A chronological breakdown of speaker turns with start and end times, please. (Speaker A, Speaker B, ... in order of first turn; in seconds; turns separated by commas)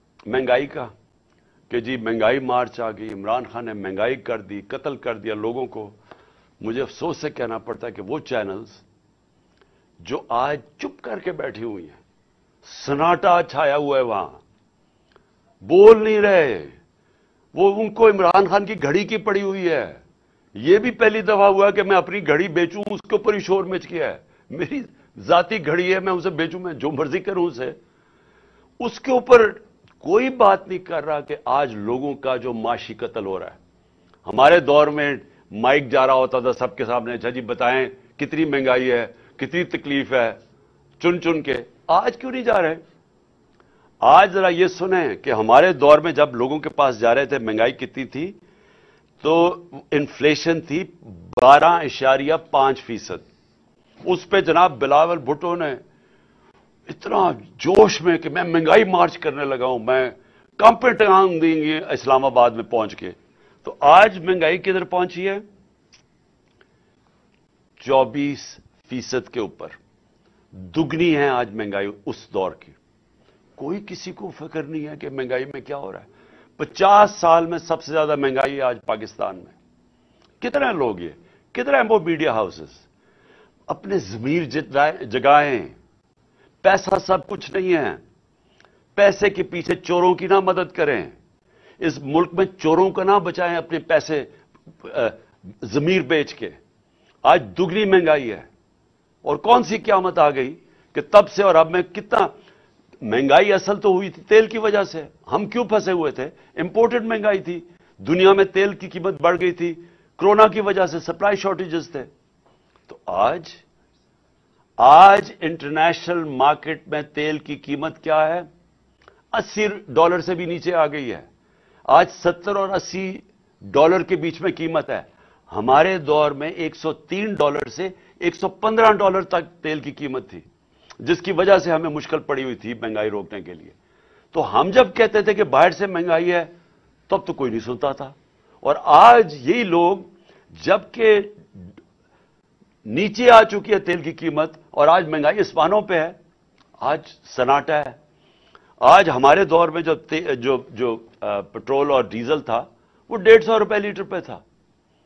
Speaker A: 0.3-0.9, Speaker A: 1.7-6.0, Speaker A: 6.6-8.8, Speaker A: 10.0-12.0, Speaker A: 12.6-14.4, Speaker A: 15.6-16.8, Speaker A: 17.5-20.0, Speaker A: 20.6-27.8, Speaker A: 28.8-33.6, Speaker A: 34.2-40.4, Speaker A: 41.0-42.8, Speaker A: 44.0-48.4, Speaker A: 49.2-53.3, Speaker A: 54.0-55.8, Speaker A: 56.9-65.4, Speaker A: 67.8-69.8, Speaker A: 70.5-72.8, Speaker A: 73.6-79.6, Speaker A: 80.4-82.9, Speaker A: 83.7-85.8, Speaker A: 86.6-88.0, Speaker A: 89.0-91.2, Speaker A: 91.8-96.6, Speaker A: 97.2-98.5, Speaker A: 99.2-102.3, Speaker A: 103.0-112.1, Speaker A: 112.9-113.6, Speaker A: 114.8-118.5, Speaker A: 119.3-121.3, Speaker A: 121.9-130.4, Speaker A: 131.0-133.8, Speaker A: 134.3-136.5, Speaker A: 137.1-141.7, Speaker A: 142.8-146.2, Speaker A: 146.8-148.0, Speaker A: 148.8-154.4